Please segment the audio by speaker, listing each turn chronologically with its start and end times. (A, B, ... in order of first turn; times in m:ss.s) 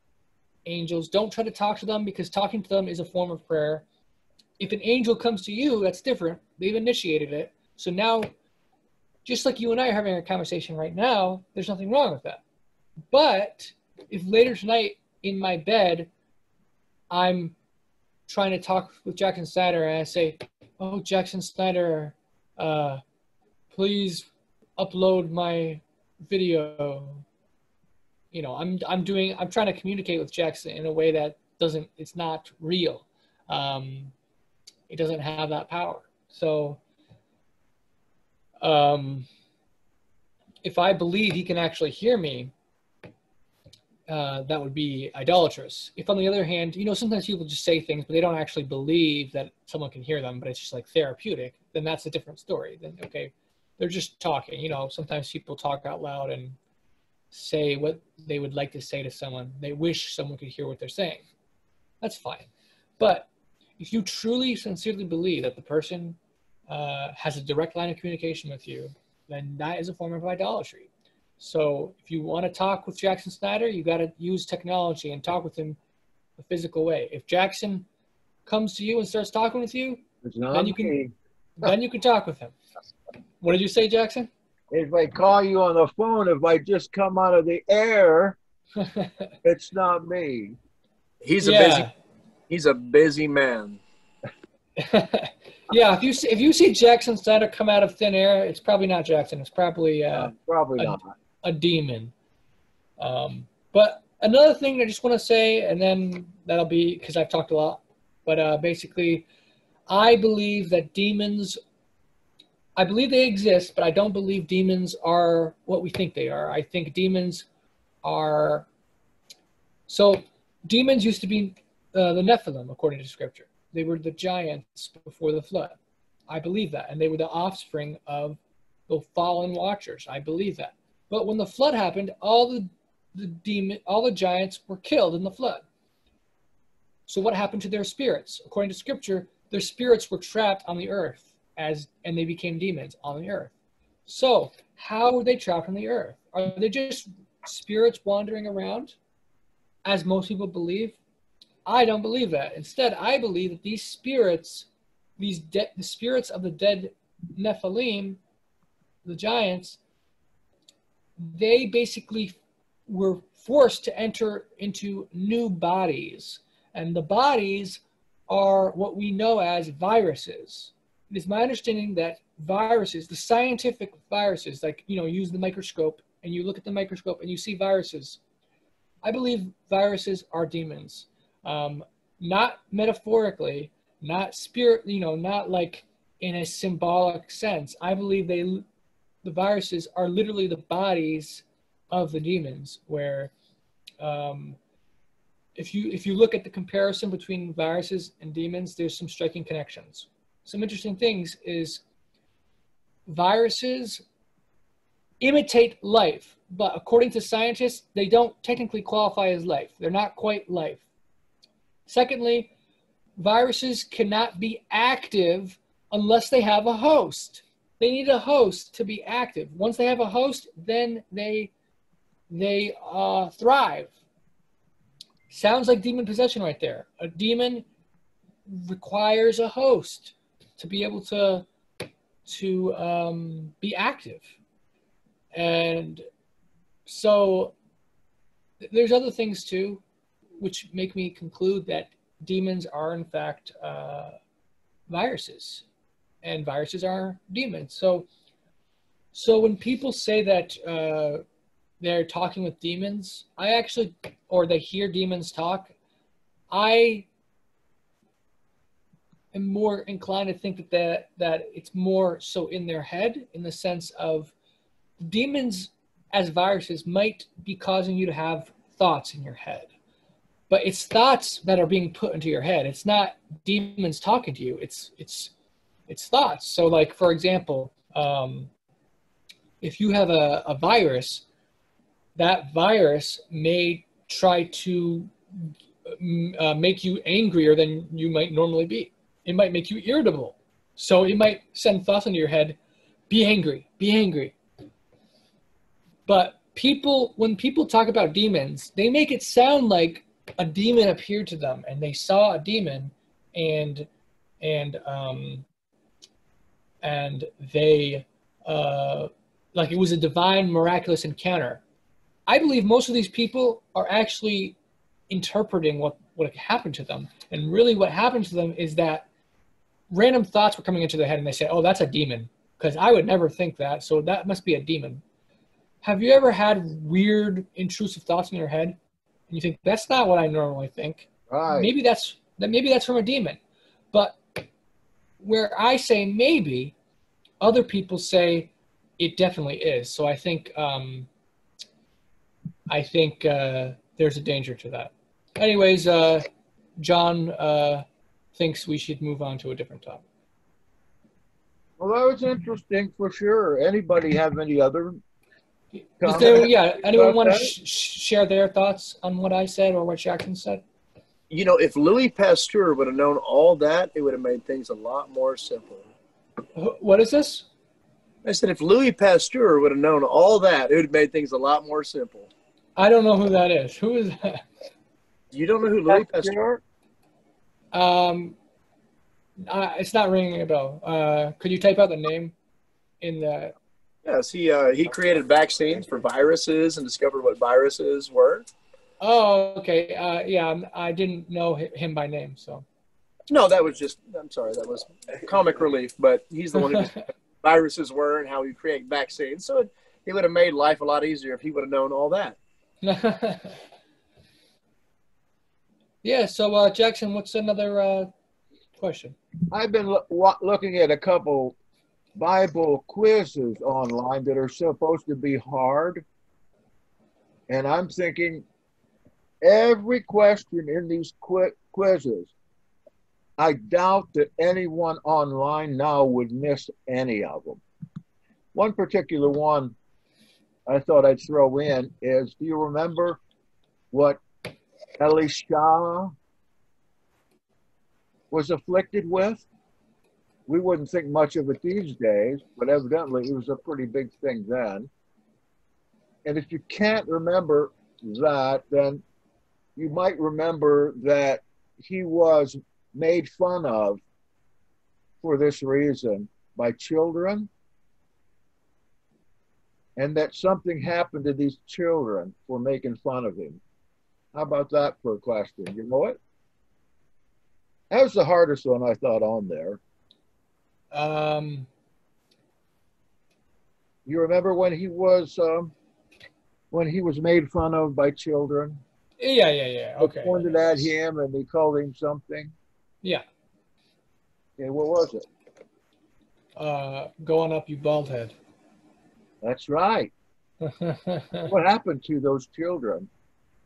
0:00.6-0:03.8 A
0:04.6-0:08.3 A
0:09.2-0:12.4 A
0:13.1-0:16.1 A
0:17.1-0:17.5 A
0:18.3-0:23.0 A
0:23.7-0:27.2 A
0:28.3-0:34.1 A
0:34.9-0:36.8 A
0:38.6-0:39.3 A
0:40.6-0:42.5 A
0:44.1-0:56.6 A
0:57.3-1:01.2 A
1:02.0-1:03.3 A
1:03.8-1:06.2 A
1:06.7-1:15.8 A
1:16.4-1:17.9 A
1:18.4-1:21.0 A
1:20.2-1:21.1 B
1:21.6-1:22.5 A
1:23.4-1:24.3 A
1:24.7-1:28.4 B
1:28.8-1:29.3 A
1:29.4-1:30.6 B
1:31.2-1:31.9 C
1:31.4-1:31.9 A
1:32.5-1:33.8 C
1:34.8-1:42.1 A
1:40.1-1:41.1 B
1:43.0-1:49.2 A
1:49.9-1:51.6 A
1:52.8-1:57.5 A
1:58.0-1:58.7 A
1:59.9-2:05.8 A
2:06.3-2:15.6 A
2:17.1-2:23.5 A
2:24.0-2:29.0 A
2:29.8-2:31.0 A
2:31.6-2:34.7 A
2:35.2-2:38.2 A
2:39.0-2:39.8 A
2:41.2-2:42.4 A
2:42.9-2:58.2 A
2:59.0-3:08.6 A
3:09.2-3:13.3 A
3:14.0-3:14.6 A
3:15.6-3:21.8 A
3:23.1-3:24.0 A
3:25.2-3:30.8 A
3:31.9-3:32.5 A
3:33.2-3:41.5 A
3:42.3-3:43.9 A
3:45.3-3:47.6 A
3:48.5-3:51.4 A
3:52.2-3:54.3 A
3:55.3-3:56.0 A
3:56.8-3:57.5 A
3:58.6-3:59.8 A
4:00.4-4:04.1 A
4:04.9-4:05.6 A
4:06.2-4:08.1 A
4:09.1-4:11.2 A
4:11.8-4:15.7 A
4:16.5-4:17.1 A
4:19.3-4:24.3 A
4:25.0-4:29.7 A
4:30.5-4:35.3 A
4:35.9-4:38.5 A
4:39.6-4:41.2 A
4:42.2-4:52.6 A
4:53.1-4:54.3 A
4:56.1-5:03.9 A
5:04.4-5:05.4 A
5:06.8-5:11.6 A
5:12.3-5:14.6 A
5:15.1-5:19.1 A
5:19.9-5:25.0 A
5:25.8-5:28.8 A
5:29.3-5:33.4 A
5:31.3-5:31.7 B
5:33.9-5:34.2 A
5:35.2-5:36.7 A
5:37.4-5:41.1 A
5:42.7-5:46.2 A
5:46.8-5:50.0 A
5:51.8-5:55.0 B
5:56.0-5:57.5 B
5:56.0-6:00.6 A
6:01.3-6:05.9 C
6:06.5-6:07.5 A
6:08.2-6:12.3 C
6:12.8-6:14.4 A
6:15.3-6:16.3 C
6:15.8-6:16.6 B
6:17.7-6:18.4 A
6:19.4-6:22.3 A
6:23.0-6:23.5 A
6:24.0-6:28.5 C
6:29.0-6:32.6 A
6:33.3-6:42.4 C
6:42.8-6:43.6 A
6:46.0-6:48.1 A
6:48.8-6:49.2 A
6:49.5-6:51.6 B
6:52.2-6:56.0 B
6:57.5-6:58.4 B
6:59.4-7:02.3 B
7:03.4-7:07.6 B
7:08.5-7:09.7 B
7:10.7-7:13.2 B
7:13.9-7:14.2 B
7:15.0-7:16.1 B
7:18.3-7:19.4 B
7:20.5-7:24.9 B
7:26.2-7:29.0 B
7:29.8-7:34.0 B
7:35.2-7:37.5 B
7:40.0-7:43.6 B
7:44.3-7:46.2 B
7:47.9-7:49.8 B
7:50.9-7:51.7 A
7:54.0-7:55.7 B
7:56.7-7:58.8 B
7:59.2-8:00.9 A
8:00.0-8:02.5 B
8:04.6-8:05.3 B
8:06.6-8:08.3 A
8:09.4-8:10.1 B
8:10.7-8:11.5 A
8:11.5-8:13.1 B